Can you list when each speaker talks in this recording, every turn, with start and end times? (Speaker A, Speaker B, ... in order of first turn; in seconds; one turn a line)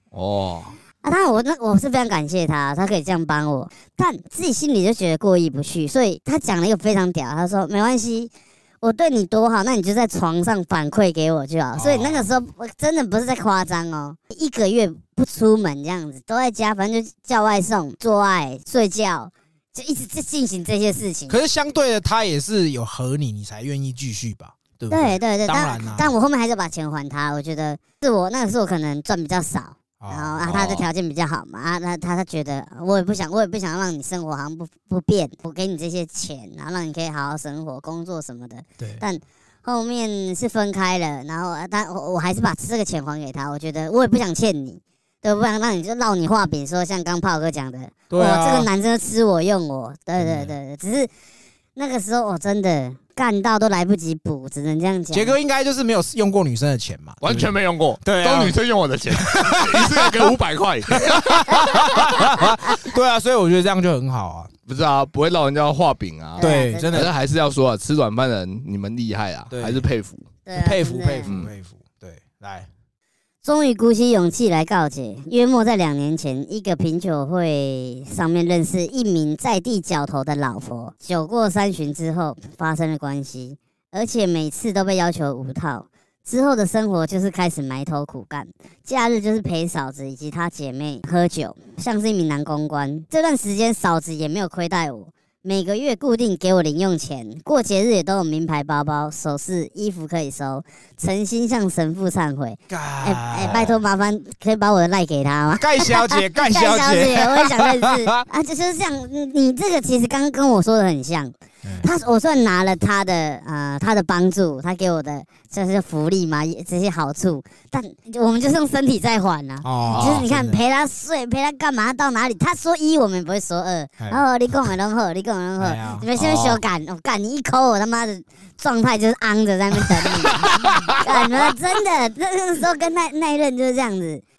Speaker A: 0.1-0.8
Speaker B: 1.0-21.4
Speaker C: 11.7-12.3
Speaker C: 21.3-26.1
Speaker B: 24.9-51.1
Speaker C: 30.0-30.6
Speaker A: 30.5-30.9
Speaker C: 38.8-39.0
Speaker C: 48.1-48.7
Speaker C: 50.2-50.5
Speaker B: 51.8-55.3
Speaker C: 55.1-58.6
Speaker A: 57.2-62.1
Speaker C: 59.1-60.4
Speaker C: 60.9-64.5
Speaker A: 64.7-70.2
Speaker B: 66.4-67.1
Speaker C: 66.4-67.1
Speaker C: 69.5-69.9
Speaker B: 70.5-71.3
Speaker C: 70.5-72.7
Speaker B: 73.4-134.2
Speaker C: 102.7-103.8
Speaker C: 105.6-108.2
Speaker C: 111.6-111.9
Speaker C: 119.6-120.6
Speaker A: 119.9-120.2
Speaker C: 125.6-126.1
Speaker A: 126.2-126.6
Speaker C: 130.3-131.2